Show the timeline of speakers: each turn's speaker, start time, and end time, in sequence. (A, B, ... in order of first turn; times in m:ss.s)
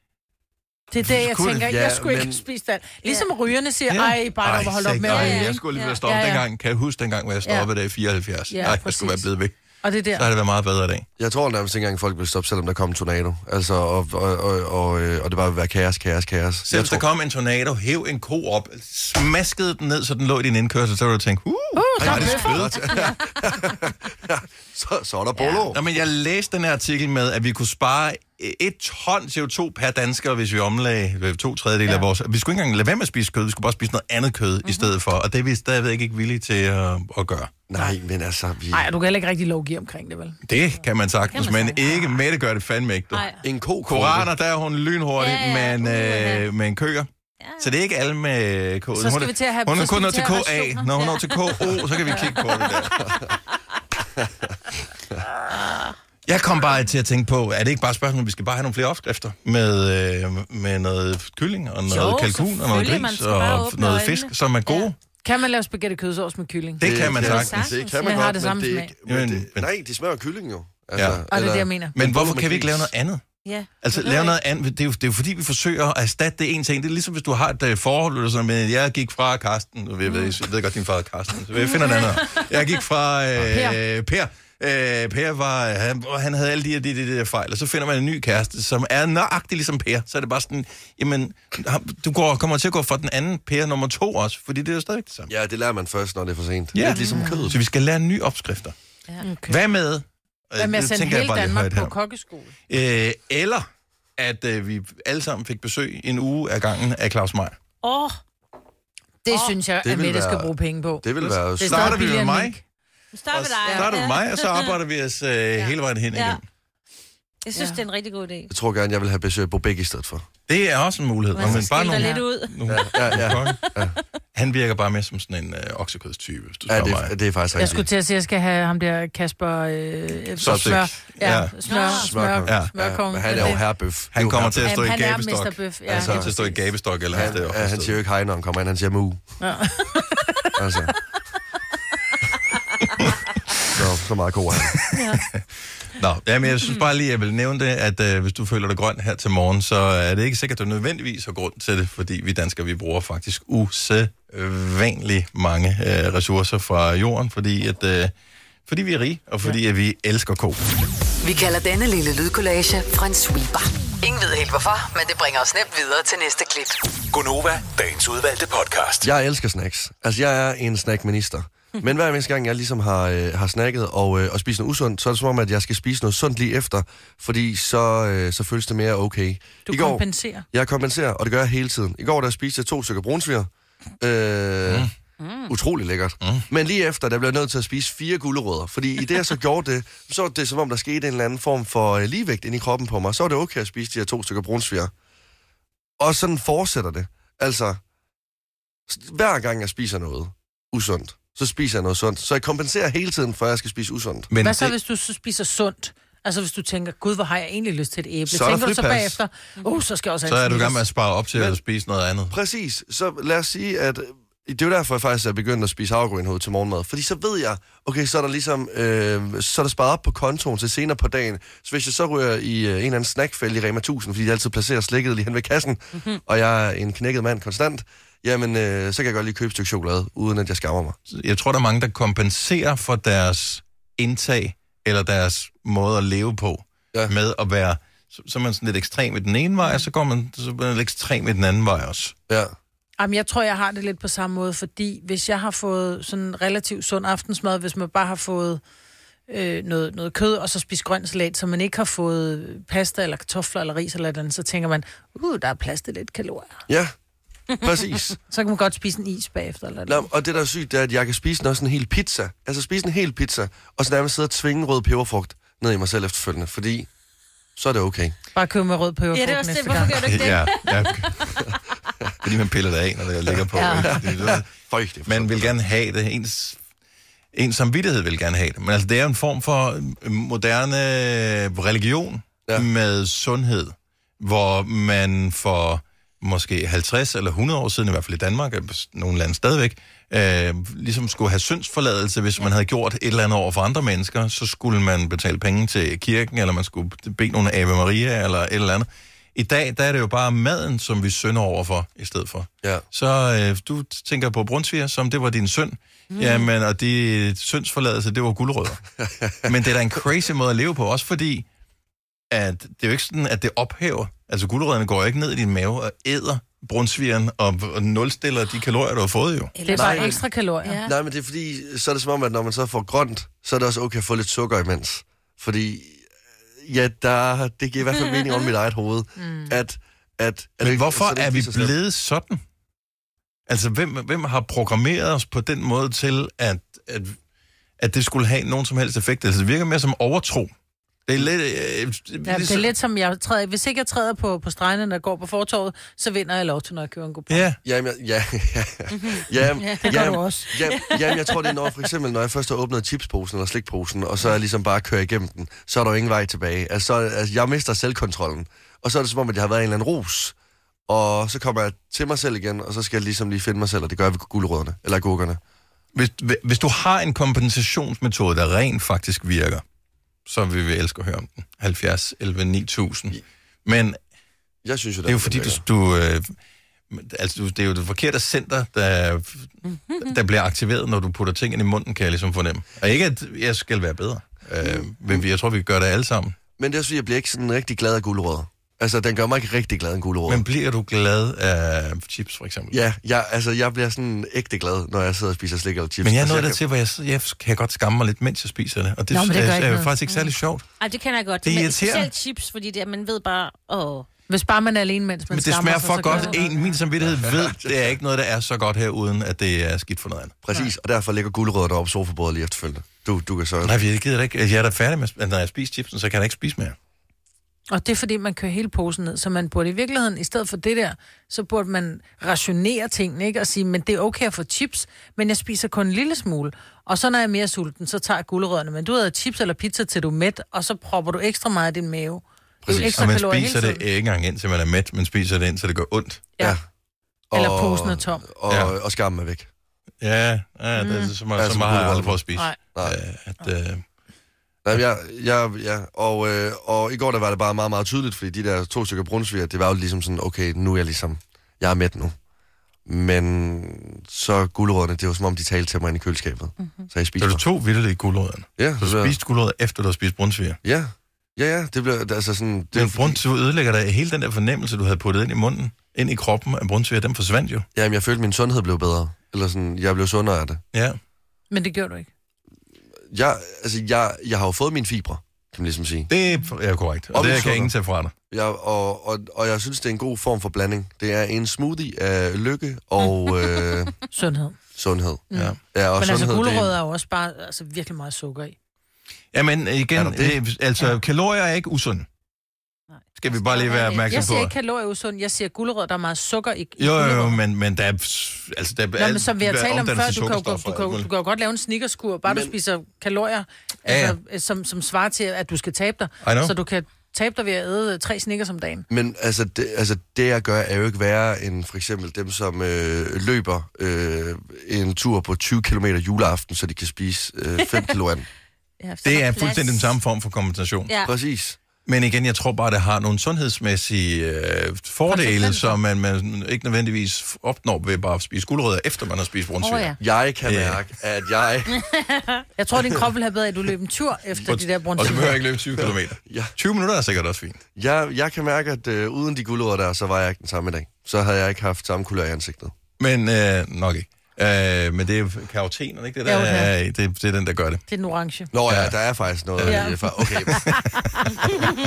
0:00.9-0:06.4 A
0:00.9-0:01.7 B
0:01.6-0:02.4 C
0:03.9-0:09.5 B
0:05.0-0:06.0 D
0:08.5-0:09.3 A
0:09.8-0:10.3 A
0:10.1-0:11.0 B
0:11.2-0:17.0 C
0:16.6-0:23.0 B
0:21.7-0:22.6 A
0:22.0-0:25.8 C
0:25.4-0:25.6 D
0:25.7-0:37.6 B
0:37.7-0:38.9 C
0:38.7-0:40.4 A
0:40.4-0:43.3 B
0:41.3-0:41.9 D
0:43.1-0:43.4 D
0:43.4-0:44.3 C
0:43.8-0:53.1 B
0:45.2-0:46.4 D
0:47.4-0:47.7 D
0:48.9-0:50.9 A
0:50.9-0:52.8 D
0:55.5-0:55.9 D
0:56.2-1:04.9 B
1:01.9-1:04.9 D
1:05.2-1:08.9 A
1:06.8-1:07.7 B
1:06.8-1:12.9 C
1:07.1-1:08.2 D
1:09.0-1:09.7 B
1:10.9-1:11.2 B
1:11.3-1:11.9 A
1:11.9-1:35.3 B
1:13.4-1:14.4 D
1:20.0-1:20.3 D
1:21.7-1:22.4 D
1:23.5-1:23.8 A
1:35.3-1:37.6 C
1:36.7-1:38.8 B
1:36.9-1:37.4 A
1:39.2-1:39.6 A
1:39.4-1:41.9 B
1:40.6-1:42.5 A
1:42.7-1:47.6 B
1:47.8-1:48.2 D
1:49.2-1:52.6 A
1:49.8-1:50.5 C
1:51.0-1:52.1 C
1:51.2-1:52.6 B
1:53.1-1:54.8 D
1:53.3-1:56.4 B
1:53.6-1:53.9 A
1:56.1-1:56.4 D
1:57.4-1:58.5 D
1:57.6-1:57.8 A
1:58.5-2:00.3 C
2:00.5-2:03.8 B
2:01.3-2:02.3 A
2:01.4-2:04.0 D
2:02.7-2:03.9 C
2:04.3-2:07.1 B
2:06.7-2:07.8 C
2:07.5-2:13.6 A
2:10.4-2:18.0 B
2:10.4-2:10.9 C
2:11.7-2:12.1 D
2:11.8-2:14.7 C
2:14.6-2:16.6 A
2:15.9-2:16.3 C
2:17.1-2:19.3 C
2:19.4-2:20.5 A
2:20.6-2:21.1 C
2:23.7-2:24.8 C
2:24.7-2:38.1 B
2:24.9-2:25.2 A
2:38.7-2:40.6 B
2:41.2-2:46.8 E
2:47.1-2:49.1 F
2:49.0-3:04.9 C
2:59.6-3:00.4 A
3:04.6-3:04.9 B
3:05.2-3:05.5 D
3:05.5-3:14.9 C
3:06.2-3:06.4 B
3:16.0-3:17.8 C
3:18.9-3:24.3 C
3:24.3-3:24.7 B
3:24.4-3:30.8 A
3:28.3-3:29.2 B
3:30.2-3:32.4 B
3:32.3-3:51.0 C
3:51.1-4:02.2 B
4:03.0-4:08.6 A
4:09.3-4:16.6 A
4:16.7-4:17.0 C
4:17.5-4:18.2 C
4:18.3-4:20.1 A
4:19.9-4:26.9 C
4:27.5-4:28.2 C
4:28.3-4:29.9 A
4:29.1-4:31.4 D
4:29.9-4:31.4 B
4:32.2-4:36.6 B
4:33.5-4:34.0 A
4:33.8-4:35.5 C
4:37.3-5:08.8 B
5:06.1-5:06.5 D
5:09.0-5:09.4 C
5:09.4-5:11.4 B
5:12.3-5:19.5 B
5:19.6-5:20.9 D
5:19.6-5:20.8 A
5:19.7-5:20.2 C
5:20.8-5:31.7 C
5:29.2-5:29.6 A
5:30.6-5:32.4 B
5:33.5-5:37.2 B
5:37.8-5:40.5 B
5:41.0-5:42.7 B
5:42.2-5:47.5 A
5:47.3-5:47.6 B
5:47.6-6:00.3 C
5:49.0-5:49.2 D
5:49.6-5:50.8 A
6:00.9-6:05.4 C
6:05.9-6:09.6 B
6:10.2-6:14.0 B
6:14.6-6:15.6 C
6:15.0-6:16.4 B
6:16.9-6:26.4 B
6:19.7-6:20.1 D
6:24.6-6:25.2 C
6:26.6-6:30.4 C
6:30.3-6:32.8 B
6:32.7-6:36.6 C
6:36.0-6:40.8 B
6:39.1-6:39.9 A
6:40.1-6:44.0 D
6:41.4-6:42.1 B
6:44.3-6:46.5 A
6:45.3-6:50.4 B
6:46.0-6:46.8 D
6:47.0-6:48.0 C
6:50.4-6:53.8 C
6:53.6-6:56.8 B
6:57.7-7:13.8 A
7:12.6-7:13.0 C
7:12.8-7:16.3 B
7:16.4-7:16.6 C
7:17.3-7:19.5 C
7:17.3-7:18.2 A
7:18.5-7:18.8 B
7:20.0-7:23.8 B
7:20.8-7:21.1 A
7:21.4-7:23.0 C
7:24.6-7:32.2 C
7:32.8-7:37.4 C
7:36.6-7:36.9 D
7:37.2-7:40.6 B
7:38.6-7:39.1 C
7:40.6-7:43.2 C
7:42.7-7:47.6 B
7:47.7-7:50.6 C
7:50.7-7:51.0 B
7:51.5-7:52.1 A
7:53.1-7:56.1 C
7:56.1-7:58.1 B
7:57.1-7:57.7 C
7:58.3-8:04.0 C
8:04.1-8:04.6 A
8:04.7-8:06.7 C
8:05.3-8:08.6 A
8:05.3-8:05.6 B
8:09.3-8:12.0 B
8:09.9-8:10.4 C
8:12.9-8:14.3 D
8:13.2-8:14.5 B
8:14.1-8:17.4 A
8:16.8-8:21.1 B
8:19.0-8:28.8 A
8:22.2-8:22.5 C
8:23.8-8:24.2 B
8:26.2-8:26.5 B
8:28.9-8:38.3 C
8:37.6-8:37.9 D
8:38.8-8:39.9 D
8:39.0-8:41.0 B
8:40.9-8:41.1 D
8:41.0-8:41.6 C
8:41.8-8:50.8 B
8:45.1-8:45.7 D
8:49.6-8:50.0 D
8:50.0-8:51.7 C
8:51.8-8:52.4 D
8:52.6-8:55.4 A
8:54.4-8:57.6 B
8:55.8-8:56.5 C
8:57.7-9:02.7 C
9:03.0-9:07.8 B
9:06.2-9:06.7 A
9:07.9-9:08.5 A
9:08.5-9:10.8 C
9:08.7-9:09.0 B
9:09.6-9:09.9 B
9:09.7-9:10.7 A
9:10.4-9:11.0 B